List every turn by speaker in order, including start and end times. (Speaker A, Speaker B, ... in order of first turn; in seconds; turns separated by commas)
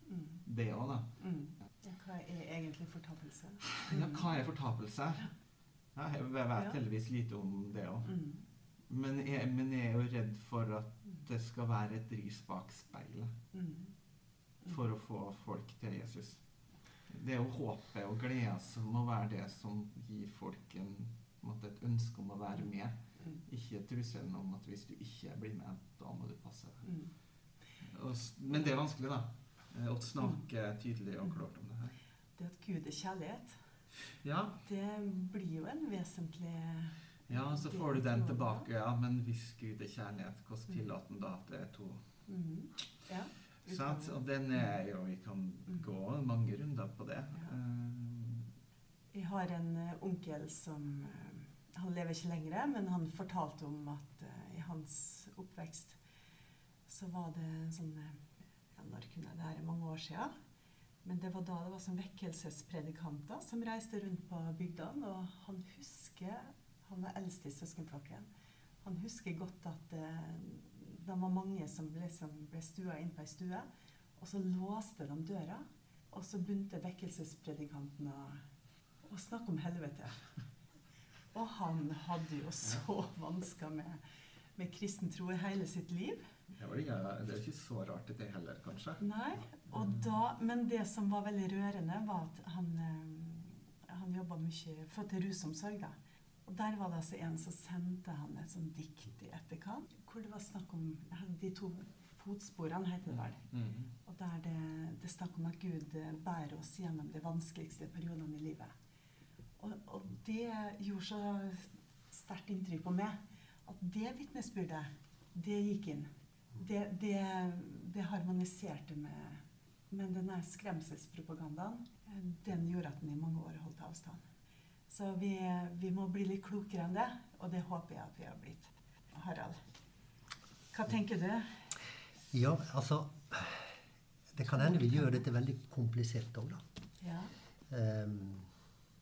Speaker A: 0.4-1.2, Speaker B: 1.2-4.1, Speaker A: 3.7-5.3, Speaker A: 6.0-8.2, Speaker B: 8.1-8.4, Speaker A: 8.9-13.3, Speaker B: 13.5-13.9, Speaker A: 14.7-16.4, Speaker A: 17.1-26.9, Speaker B: 26.9-27.1, Speaker A: 27.8-31.9, Speaker B: 32.4-33.6, Speaker A: 34.1-34.6, Speaker B: 34.6-38.7, Speaker A: 37.3-42.2, Speaker B: 42.3-44.1, Speaker A: 43.6-48.5, Speaker B: 49.1-56.0, Speaker B: 56.9-58.2, Speaker B: 58.7-60.3, Speaker B: 61.0-68.3, Speaker B: 68.8-78.4, Speaker B: 79.0-80.3, Speaker B: 81.3-84.0, Speaker B: 84.6-86.3, Speaker A: 86.5-90.1, Speaker B: 89.0-103.5, Speaker A: 103.4-103.9, Speaker B: 104.0-108.7, Speaker B: 109.6-124.2, Speaker B: 124.9-129.6, Speaker B: 130.7-131.7, Speaker C: 132.3-133.8, Speaker C: 134.3-136.6, Speaker B: 137.0-137.3, Speaker C: 137.7-138.5